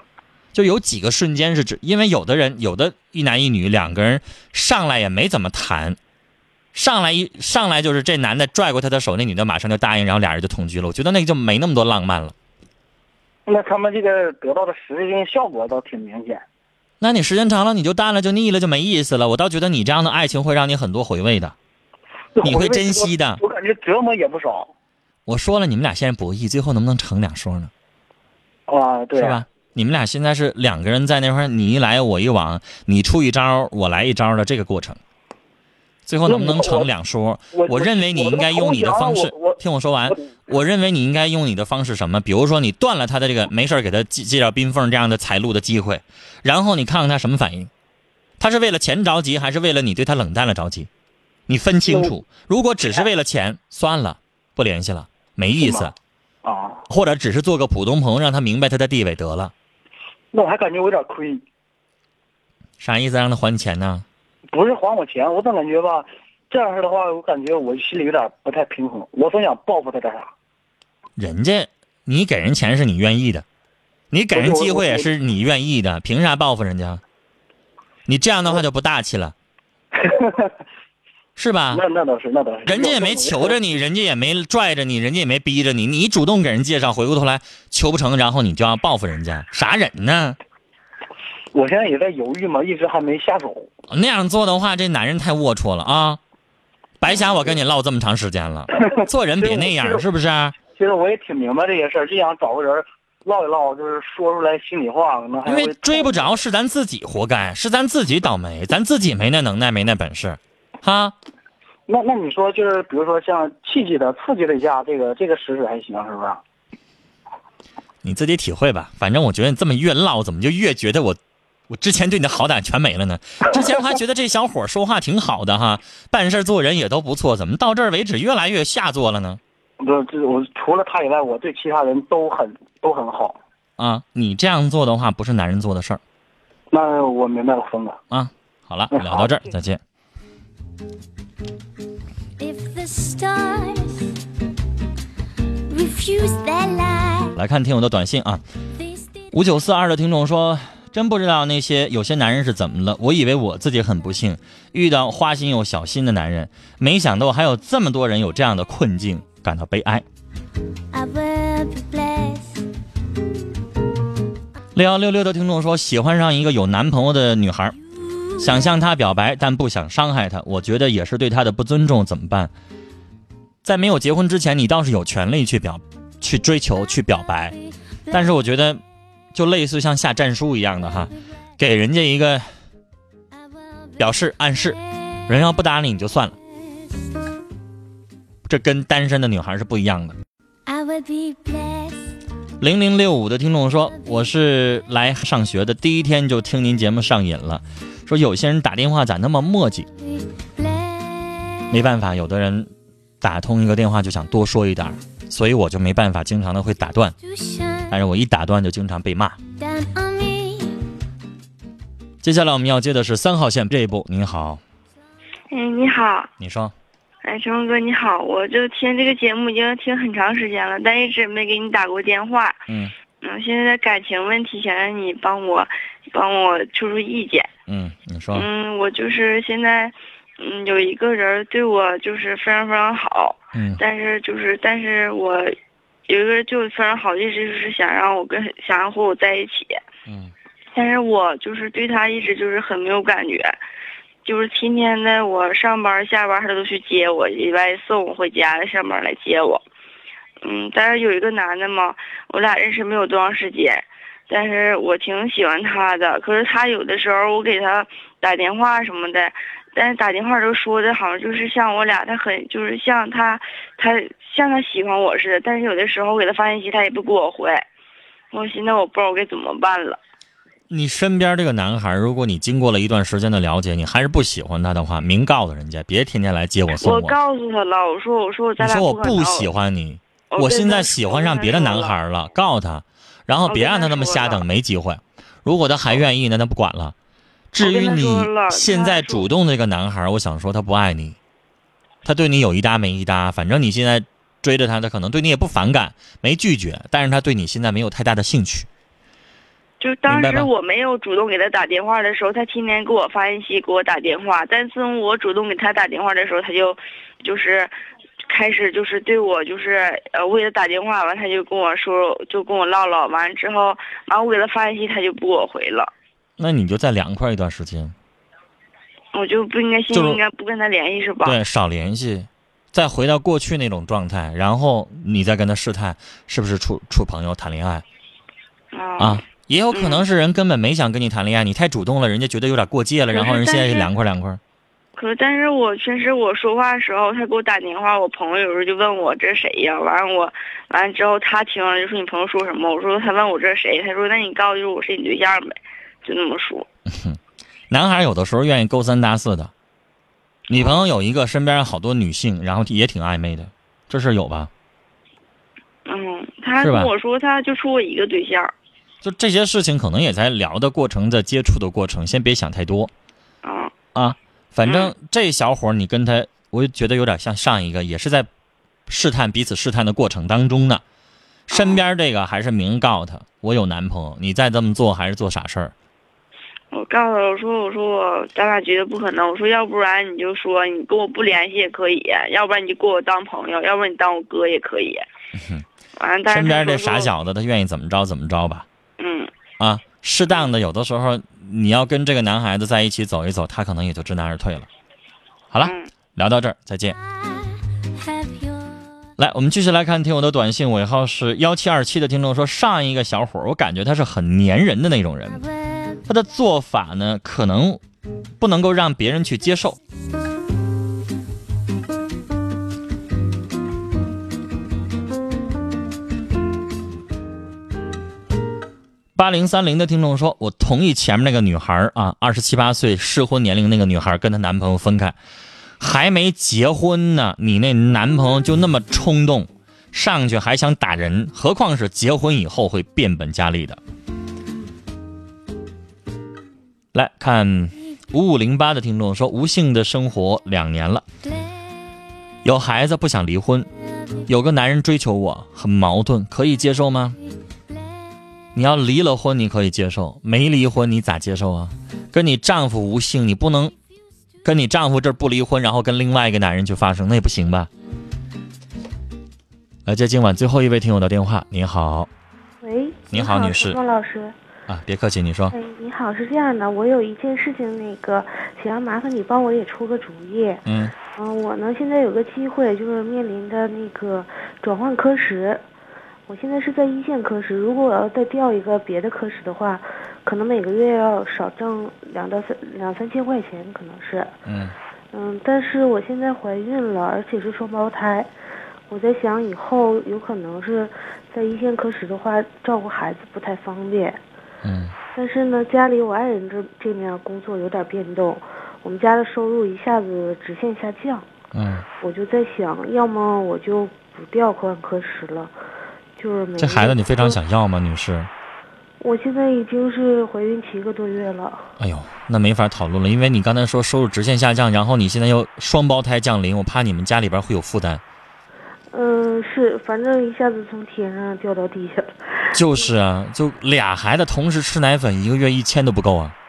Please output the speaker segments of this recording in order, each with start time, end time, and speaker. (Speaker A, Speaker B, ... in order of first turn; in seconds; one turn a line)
Speaker A: 0.5-6.0
Speaker A: 6.7-12.3
Speaker B: 13.5-16.4
Speaker A: 17.0-21.6
Speaker B: 22.4-24.7
Speaker A: 22.4-23.4
Speaker A: 25.3-27.7
Speaker B: 28.7-29.4
Speaker A: 29.1-35.0
Speaker A: 36.1-47.7
Speaker B: 36.3-36.9
Speaker B: 37.5-40.2
Speaker A: 48.4-50.9
Speaker A: 51.5-56.0
Speaker B: 51.9-52.1
Speaker B: 55.6-55.9
Speaker B: 56.4-56.9
Speaker A: 56.9-59.5
Speaker B: 60.3-61.4
Speaker A: 62.8-64.0
Speaker B: 64.5-70.3
Speaker A: 71.2-73.5
Speaker A: 74.1-77.0
Speaker B: 74.3-75.1
Speaker A: 78.1-79.3
Speaker B: 79.9-80.5
Speaker A: 81.4-81.8
Speaker B: 81.7-83.6
Speaker A: 82.7-90.4
Speaker B: 91.5-93.7
Speaker A: 93.9-96.2
Speaker A: 97.0-100.6
Speaker B: 98.9-100.0
Speaker B: 100.8-106.3
Speaker A: 105.5-111.2
Speaker B: 111.9-116.4
Speaker A: 118.0-121.2
Speaker A: 121.7-129.4
Speaker B: 129.8-133.4
Speaker A: 133.8-136.0
Speaker B: 136.7-138.0
Speaker A: 138.1-139.8
Speaker B: 138.9-139.4
Speaker C: 142.4-144.2
Speaker C: 145.7-147.4
Speaker A: 147.3-148.4
Speaker C: 148.8-149.3
Speaker A: 149.3-160.0
Speaker C: 160.9-162.7
Speaker A: 164.8-167.8
Speaker C: 168.1-168.5
Speaker A: 168.4-172.5
Speaker A: 173.6-177.6
Speaker A: 178.1-178.8
Speaker A: 179.3-182.5
Speaker C: 183.3-185.2
Speaker A: 184.0-186.3
Speaker C: 186.8-187.1
Speaker A: 188.5-190.2
Speaker C: 190.7-192.1
Speaker A: 192.6-199.9
Speaker C: 200.0-201.8
Speaker A: 201.7-202.7
Speaker A: 203.2-207.2
Speaker C: 207.2-208.0
Speaker A: 207.9-209.4
Speaker C: 209.6-210.8
Speaker A: 212.2-214.6
Speaker D: 215.5-216.3
Speaker A: 216.4-216.7
Speaker D: 217.2-222.6
Speaker A: 222.7-222.9
Speaker D: 223.2-227.5
Speaker A: 227.7-228.5
Speaker D: 228.3-235.6
Speaker A: 233.6-233.8
Speaker D: 236.1-239.8
Speaker A: 240.1-240.3
Speaker D: 240.7-243.6
Speaker D: 244.2-249.6
Speaker D: 250.4-267.6
Speaker D: 268.3-270.0
Speaker A: 270.7-277.1
Speaker D: 276.8-279.5
Speaker A: 278.6-286.9
Speaker D: 280.3-282.0
Speaker D: 283.5-284.4
Speaker A: 287.5-291.2
Speaker D: 287.6-289.3
Speaker A: 292.0-298.7
Speaker D: 299.8-307.7
Speaker A: 300.1-300.5
Speaker D: 308.3-315.9
Speaker A: 316.4-317.9
Speaker D: 319.1-321.4
Speaker A: 319.9-320.2
Speaker A: 321.2-327.9
Speaker D: 328.7-330.0
Speaker A: 329.0-334.4
Speaker D: 333.1-333.9
Speaker D: 335.0-346.7
Speaker A: 346.9-347.2
Speaker A: 347.7-349.5
Speaker A: 350.5-354.5
Speaker D: 350.5-350.9
Speaker D: 355.9-358.5
Speaker A: 356.6-356.9
Speaker A: 359.0-362.9
Speaker D: 363.4-363.7
Speaker A: 363.9-368.3
Speaker D: 364.6-364.9
Speaker A: 368.9-370.8
Speaker A: 371.5-375.7
Speaker D: 371.5-371.8
Speaker D: 376.7-385.1
Speaker A: 385.4-385.6
Speaker D: 386.0-387.1
Speaker A: 386.3-388.7
Speaker D: 389.0-389.3
Speaker A: 389.6-394.7
Speaker A: 395.5-397.0
Speaker D: 395.6-395.9
Speaker C: 396.9-398.8
Speaker A: 399.2-405.4
Speaker C: 405.3-406.1
Speaker A: 406.1-407.8
Speaker A: 408.4-409.8
Speaker A: 419.1-425.2
Speaker A: 425.8-433.8
Speaker A: 436.9-441.0
Speaker A: 442.4-443.7
Speaker A: 444.3-447.2
Speaker C: 447.7-448.1
Speaker A: 448.6-453.7
Speaker A: 454.4-457.7
Speaker A: 459.9-462.1
Speaker E: 462.6-464.4
Speaker A: 463.1-463.8
Speaker A: 464.7-465.6
Speaker E: 465.5-475.6
Speaker A: 470.7-470.9
Speaker E: 476.3-484.3
Speaker A: 484.5-484.8
Speaker E: 485.1-488.3
Speaker E: 488.9-494.2
Speaker A: 494.6-494.9
Speaker E: 495.1-501.3
Speaker A: 501.5-501.8
Speaker E: 502.0-505.5
Speaker E: 506.2-507.4
Speaker A: 506.6-508.3
Speaker E: 509.0-511.7
Speaker A: 511.8-518.0
Speaker E: 518.9-522.9
Speaker A: 522.5-526.4